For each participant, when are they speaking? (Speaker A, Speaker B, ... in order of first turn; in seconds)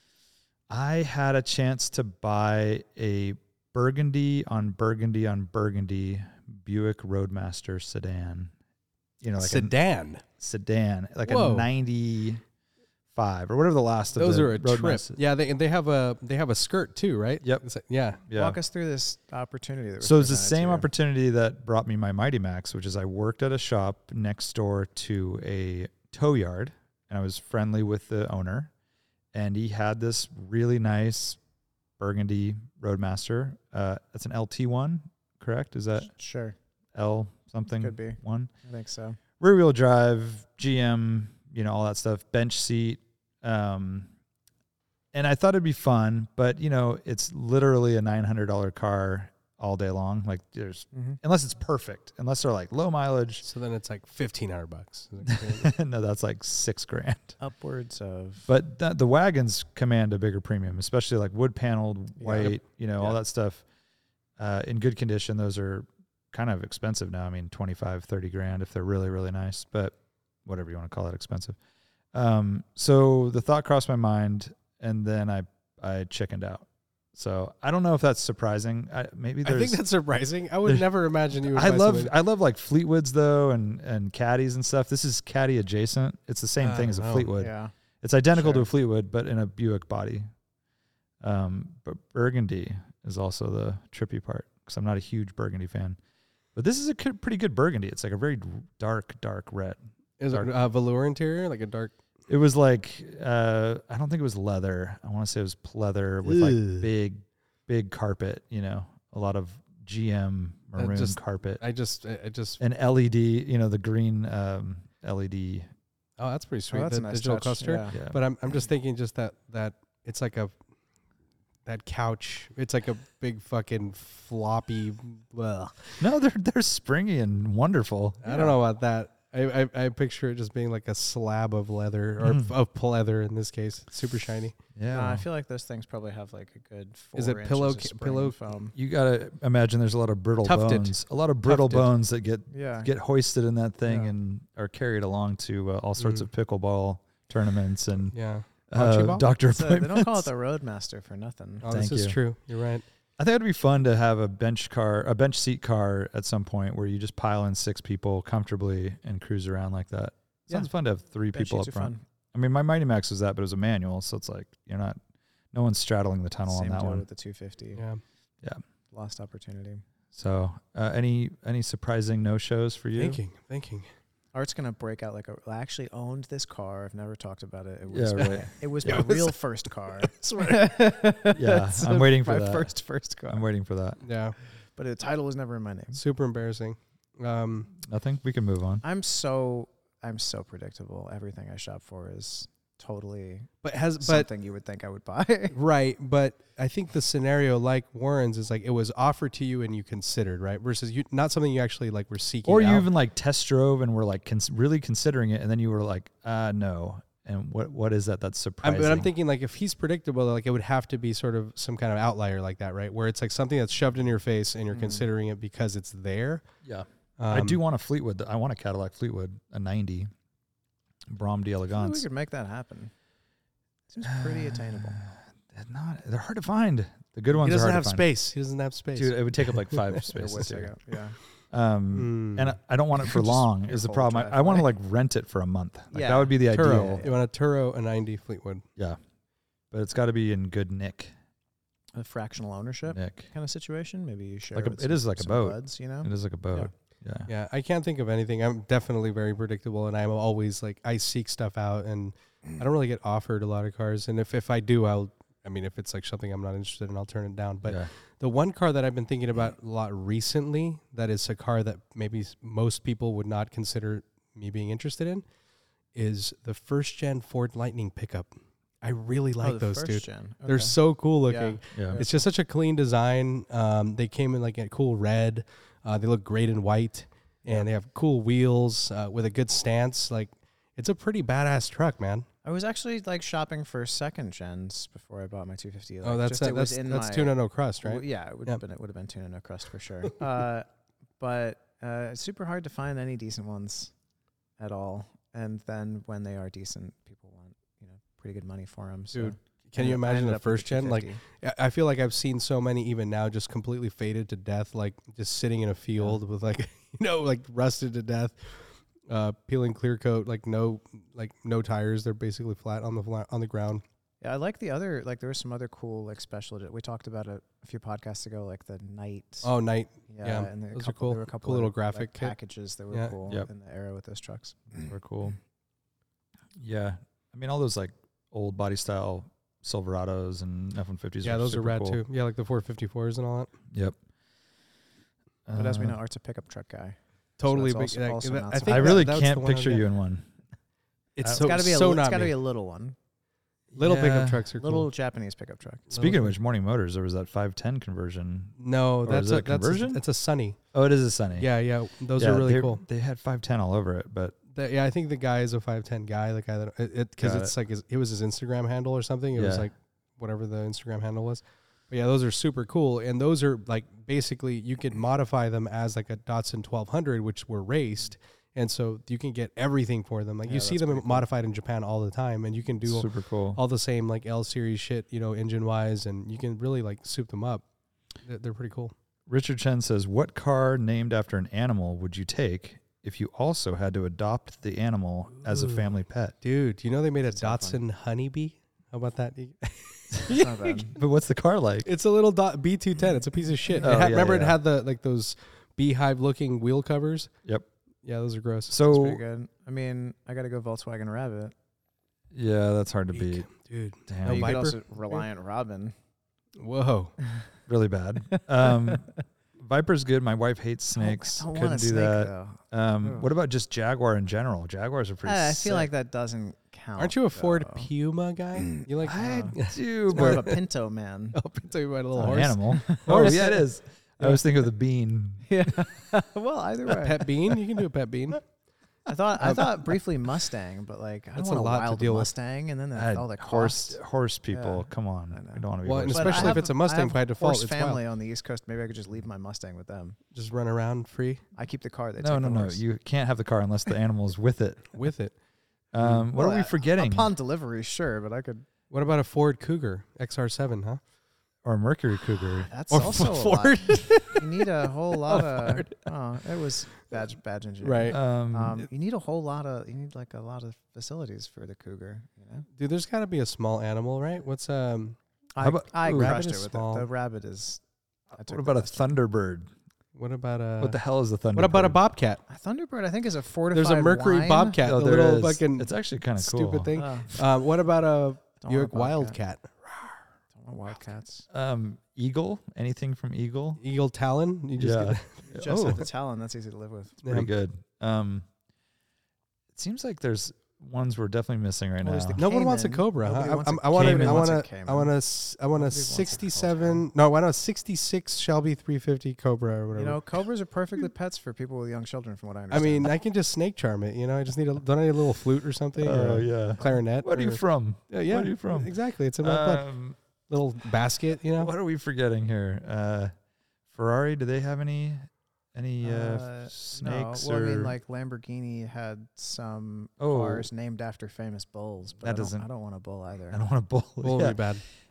Speaker A: 0.7-8.5, 9.2-9.8, 10.4-12.4, 13.1-15.2, 18.3-18.6, 20.0-28.7, 29.3-31.4, 32.0-36.1, 36.9-38.5, 39.4-44.1, 45.1-53.5, 55.3-57.4, 58.5-63.6, 64.4-71.6, 72.1-79.8, 81.4-90.3, 91.2-96.0, 96.5-99.8, 102.3-111.6, 112.6-115.7, 117.9-118.2, 126.0-128.2, 132.2-132.5, 134.8-135.2, 138.8-148.2, 148.7-150.3, 151.7-152.2, 153.2-165.0, 165.5-167.1, 170.1-173.2, 177.9-179.1, 181.3-182.7, 183.3-184.0, 187.8-188.8, 202.4-209.1, 216.6-220.1, 221.1-222.0, 224.0-228.1, 228.9-230.7, 231.5-237.0, 239.7-241.1, 242.9-243.3, 244.5-247.3, 257.6-257.9, 324.8-325.4, 326.6-332.0, 333.7-334.0, 335.5-336.0, 338.7-340.3, 341.2-341.5, 343.7-344.5, 346.0-350.0, 350.7-351.5, 352.1-354.4, 357.2-357.5, 359.4-359.7, 372.9-373.6, 379.3-386.4, 390.9-391.9, 393.8-394.6, 398.7-399.2, 402.3-403.5, 404.1-404.6, 407.7-415.9, 419.1-420.5, 422.1-425.7, 432.9-436.7, 442.2-444.9, 445.9-447.3, 451.6-452.7, 458.1-458.9, 465.6-466.4, 468.4-469.7, 470.8-472.0, 474.8-477.0, 481.5-483.8, 484.8-486.0, 487.2-488.5, 489.7-492.4, 493.9-494.5, 506.0-510.2, 511.6-513.3, 513.9-518.0, 520.2-520.7, 522.2-522.7, 523.5-524.6
Speaker B: 9.4-10.2, 11.3-11.7, 14.2-18.2, 53.4-55.7, 62.4-63.2, 79.5-82.1, 86.6-87.3, 100.2-102.0, 106.2-106.9, 110.8-112.6, 116.2-120.6, 121.7-126.0, 128.2-134.6, 137.2-138.4, 140.4-141.9, 146.0-146.3, 148.1-149.2, 151.6-152.8, 167.8-168.0, 172.9-173.9, 178.2-179.3, 180.1-180.6, 184.0-184.3, 185.9-187.7, 193.6-194.3, 195.5-202.9, 208.6-216.4, 217.2-217.6, 227.4-230.0, 231.9-232.6, 236.5-238.7, 247.3-265.2, 265.9-268.3, 268.8-282.3, 286.0-288.6, 299.1-313.8, 319.4-322.3, 331.2-333.5, 337.4-339.9, 341.2-342.4, 343.8-344.9, 345.9-346.4, 348.6-350.6, 351.4-352.8, 354.5-377.6, 378.2-378.9, 386.4-390.9, 391.9-397.3, 398.0-398.8, 403.1-405.2, 406.6-407.2, 417.0-420.6, 421.3-423.6, 426.9-428.4, 429.4-430.0, 431.4-432.3, 435.8-438.0, 440.3-441.4, 444.9-445.3, 446.0-446.3, 448.9-451.0, 452.9-456.0, 457.8-458.2, 462.8-465.2, 466.0-467.1, 470.1-471.0, 471.5-472.4, 473.7-480.2, 483.8-486.0, 487.2-487.5, 492.4-500.2, 502.7-509.9, 510.5-511.7, 524.2-524.8
Speaker C: 18.3-20.9, 36.0-36.6, 37.8-39.2, 50.9-51.2, 57.4-58.5, 62.2-62.6, 87.4-87.7, 88.3-88.7, 116.7-118.0, 128.3-128.6, 134.9-138.8, 142.5-142.9, 149.5-151.7, 161.3-162.0, 166.5-167.8, 168.9-169.8, 174.3-183.5, 184.8-186.0, 188.8-195.6, 214.7-215.1, 221.7-222.9, 223.9-225.0, 230.1-231.2, 233.4-234.7, 235.9-237.2, 241.9-246.7, 269.4-270.8, 271.3-272.3, 282.4-290.7, 291.2-293.9, 294.6-301.2, 314.2-319.5, 320.1-324.9, 335.5-339.1, 341.3-343.0, 344.6-345.9, 370.5-371.3, 387.3-387.8, 390.3-390.9, 398.8-401.5, 404.2-405.9, 408.6-408.9, 410.9-413.3, 415.2-417.9, 418.6-419.6, 420.1-421.4, 422.7-423.5, 425.5-427.3, 429.1-434.0, 434.5-440.2, 441.6-442.8, 446.3-448.7, 452.7-462.7, 465.6-467.8, 468.3-469.1, 472.5-474.8, 476.9-477.3, 478.6-479.4, 480.5-481.5, 485.5-487.2, 492.0-495.1, 495.7-497.1, 499.9-503.1, 516.0-523.6